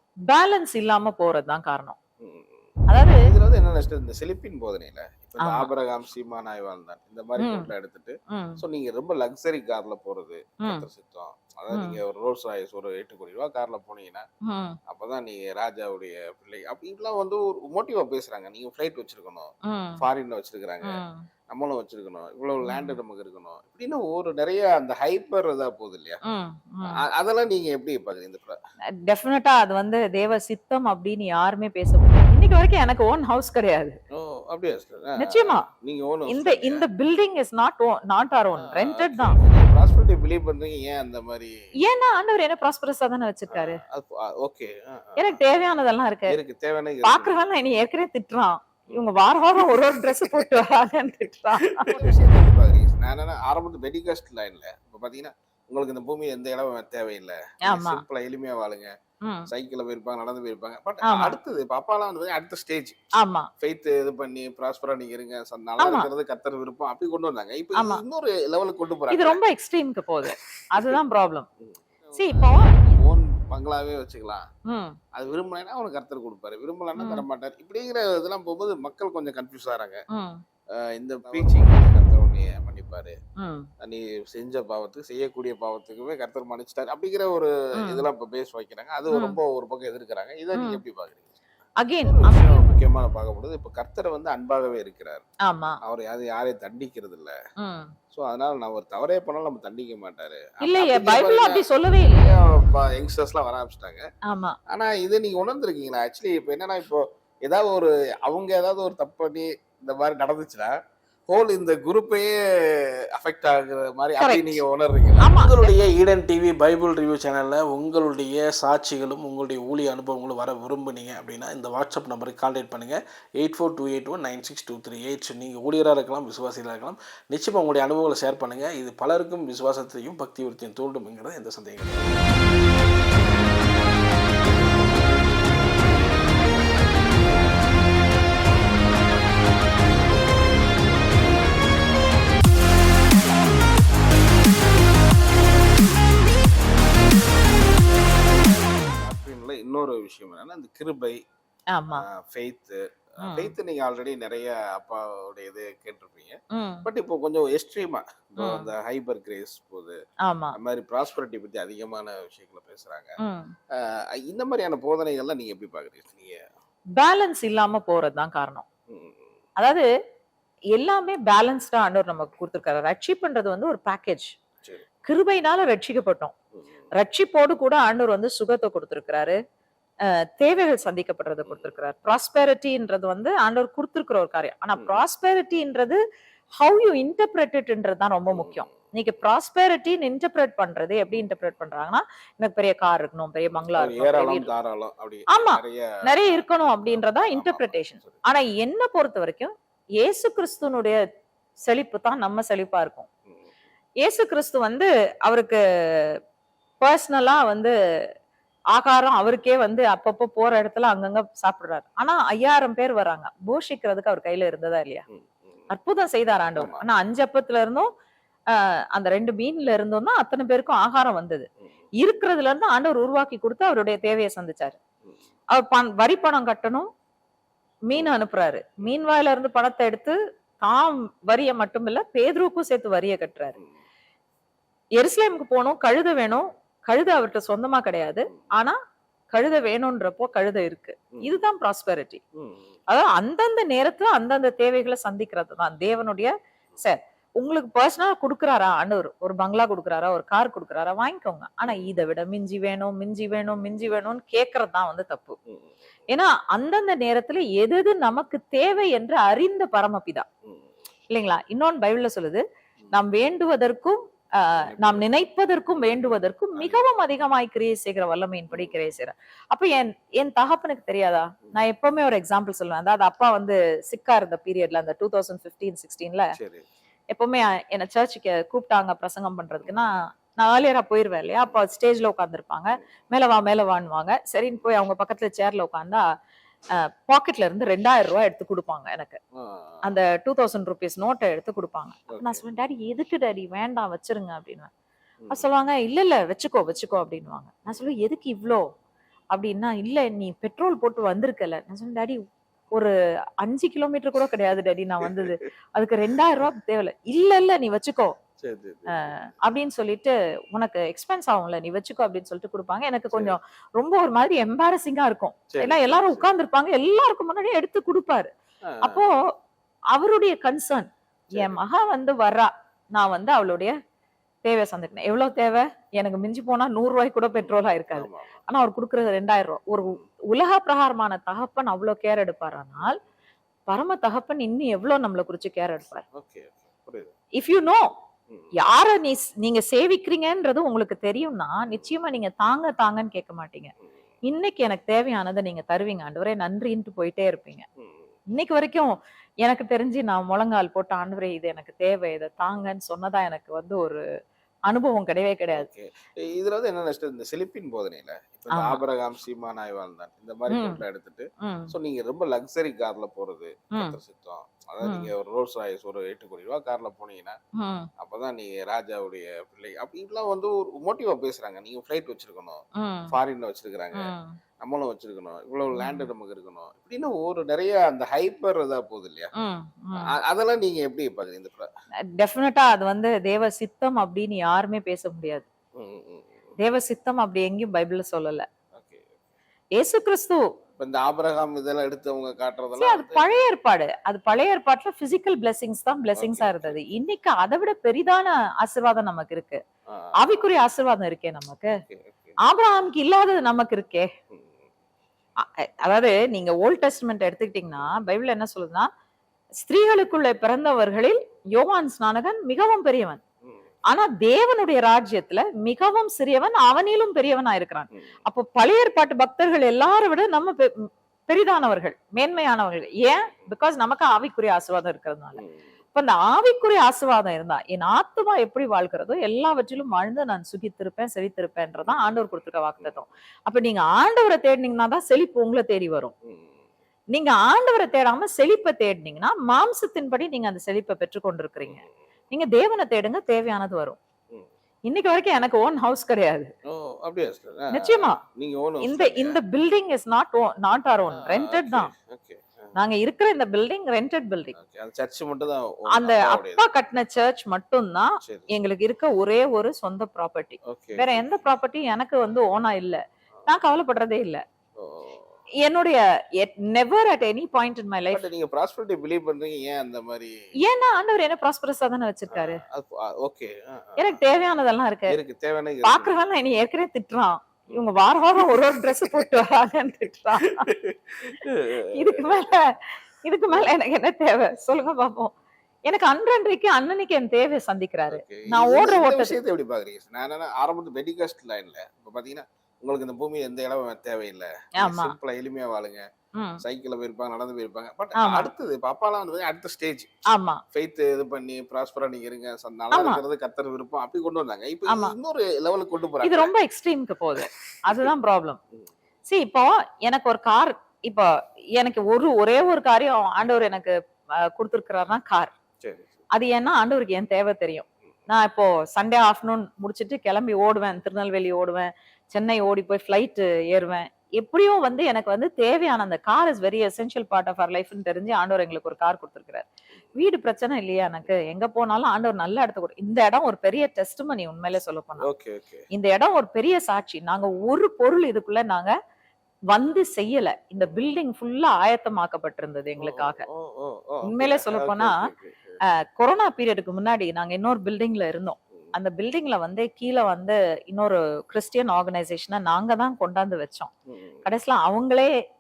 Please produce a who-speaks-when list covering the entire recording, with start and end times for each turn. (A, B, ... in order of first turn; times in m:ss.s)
0:00.3-0:02.0 A
0:02.2-0:14.2 B
0:02.9-0:03.2 A
0:05.4-0:05.7 A
0:07.4-0:07.7 A
0:08.3-0:08.6 A
0:11.7-0:12.0 A
0:14.5-0:14.8 A
0:14.9-0:26.2 B
0:19.7-0:20.0 A
0:20.8-0:21.3 A
0:22.6-0:23.0 A
0:26.2-0:27.0 A
0:26.9-0:28.6 B
0:29.1-0:34.0 A
0:34.1-0:36.9 B
0:35.2-0:35.7 A
0:36.3-0:39.4 A
0:38.6-0:41.6 B
0:41.8-0:43.8 A
0:43.5-0:45.4 B
0:45.2-0:46.4 A
0:46.3-0:47.4 B
0:47.0-0:52.1 A
0:49.6-0:50.5 B
0:51.7-0:58.9 B
0:57.7-0:58.0 A
0:59.2-0:59.5 A
0:59.5-1:03.0 B
1:01.0-1:01.4 A
1:03.2-1:03.5 A
1:03.6-1:09.4 B
1:05.8-1:06.1 A
1:07.8-1:08.0 A
1:09.1-1:11.5 A
1:10.2-1:11.0 B
1:11.6-1:14.5 B
1:12.2-1:12.8 A
1:14.7-1:15.0 A
1:15.1-1:20.0 B
1:17.0-1:17.2 A
1:20.1-1:20.4 A
1:20.8-1:23.2 B
1:23.4-1:23.7 A
1:23.8-1:31.3 B
1:27.8-1:28.1 A
1:29.1-1:29.4 A
1:30.5-1:30.8 A
1:31.8-1:32.7 A
1:32.0-1:35.2 B
1:35.4-1:35.8 A
1:35.8-1:37.4 B
1:37.6-1:38.0 A
1:38.1-1:44.0 B
1:40.6-1:42.4 A
1:44.2-1:44.6 A
1:44.7-1:50.8 B
1:51.3-1:55.4 B
1:54.2-1:54.6 A
1:55.2-1:55.7 A
1:55.4-2:12.4 C
2:28.3-2:31.2 B
2:31.7-2:32.1 A
2:32.0-2:40.0 B
2:33.2-2:33.5 A
2:36.5-2:36.9 A
2:38.4-2:38.7 A
2:40.2-2:40.6 A
2:40.5-2:43.2 B
2:43.2-2:43.6 A
2:43.7-2:46.5 B
2:47.0-2:48.6 A
2:48.9-2:49.3 B
2:49.6-2:49.9 A
2:50.7-2:54.4 A
2:55.0-2:56.3 A
2:57.0-2:59.4 A
3:00.1-3:06.0 A
3:04.8-3:05.0 B
3:06.6-3:14.5 A
3:08.3-3:08.7 B
3:13.8-3:18.2 B
3:15.3-3:21.0 A
3:21.7-3:23.1 A
3:24.0-3:26.2 A
3:26.8-3:27.7 A
3:28.7-3:35.0 A
3:35.7-3:37.9 A
3:36.6-3:36.8 B
3:38.5-3:41.5 A
3:42.0-3:44.8 A
3:45.5-3:46.9 A
3:47.9-3:53.6 A
3:55.0-3:58.8 A
3:59.3-4:02.2 A
4:02.4-4:02.7 B
4:02.9-4:15.4 A
4:16.1-4:20.3 A
4:21.1-4:36.4 A
4:24.6-4:25.0 B
4:26.6-4:26.8 B
4:36.4-4:36.7 B
4:37.1-4:46.0 A
4:46.7-4:49.2 A
4:49.3-4:49.8 B
4:49.8-4:54.7 A
4:52.1-4:52.4 B
4:55.3-4:58.6 A
4:59.3-5:02.2 A
5:02.7-5:08.2 A
5:05.0-5:05.3 B
5:08.4-5:09.2 B
5:08.9-5:18.3 A
5:15.5-5:16.3 B
5:18.7-5:19.0 B
5:18.8-5:19.2 A
5:19.9-5:23.8 A
5:21.4-5:21.6 B
5:24.4-5:33.0 A
5:27.4-5:28.4 B
5:33.7-5:36.0 A
5:36.1-5:37.1 B
5:37.4-5:37.9 A
5:38.6-5:43.7 A
5:44.2-5:47.7 A
5:47.8-5:48.1 B
5:48.4-5:48.9 A
5:49.4-5:54.0 A
5:54.7-5:55.7 A
5:55.5-6:07.4 B
5:58.5-5:58.8 A
6:00.5-6:00.8 A
6:01.4-6:01.7 A
6:04.8-6:05.1 A
6:07.6-6:07.9 A
6:08.0-6:19.3 B
6:12.8-6:13.2 A
6:14.0-6:14.4 A
6:15.7-6:16.1 A
6:19.4-6:20.1 A
6:20.0-6:21.7 B
6:22.1-6:25.5 A
6:25.8-6:26.5 B
6:26.6-6:28.5 A
6:28.7-6:29.2 B
6:29.8-6:30.4 A
6:30.8-6:33.3 B
6:32.8-6:39.6 A
6:36.2-6:36.8 B
6:39.9-6:40.4 B
6:40.2-6:41.8 A
6:41.7-6:42.4 B
6:42.4-6:44.1 A
6:44.3-6:44.6 B
6:45.4-6:48.9 A
6:49.6-6:53.2 A
6:53.9-7:05.4 A
7:05.9-7:16.1 A
7:16.3-7:16.6 B
7:17.1-7:24.0 A
7:24.9-7:26.5 A
7:26.6-7:29.4 B
7:27.7-7:28.2 A
7:28.8-7:31.9 A
7:31.1-7:32.7 B
7:32.8-7:34.6 A
7:34.6-7:36.6 B
7:35.9-7:44.4 A
7:38.2-7:38.5 B
7:40.6-7:41.3 B
7:44.8-7:45.3 B
7:45.6-7:48.2 A
7:48.1-7:50.4 B
7:50.6-7:52.6 A
7:52.3-7:54.2 B
7:54.0-7:55.2 A
7:55.1-7:56.2 B
7:55.8-8:00.7 A
7:58.4-7:59.2 B
8:00.4-8:02.5 B
8:01.9-8:02.7 A
8:03.2-8:05.3 A
8:03.5-8:03.8 B
8:05.9-8:09.4 A
8:08.1-8:16.1 B
8:14.8-8:15.2 A
8:16.4-8:16.6 A
8:16.6-8:20.1 B
8:18.2-8:18.5 A
8:20.3-8:20.6 A
8:20.7-8:26.5 B
8:22.9-8:23.2 A
8:24.9-8:25.2 A
8:26.2-8:28.6 A
8:27.4-8:28.1 B
8:29.3-8:35.5 A
8:35.8-8:36.2 B
8:36.3-8:55.3 A
8:55.2-8:55.8 B
8:55.9-8:59.0 A
8:59.7-9:03.5 A
9:03.0-9:05.8 B
9:04.2-9:05.2 A
9:05.9-9:13.9 A
9:14.1-9:14.4 B
9:14.4-9:15.4 A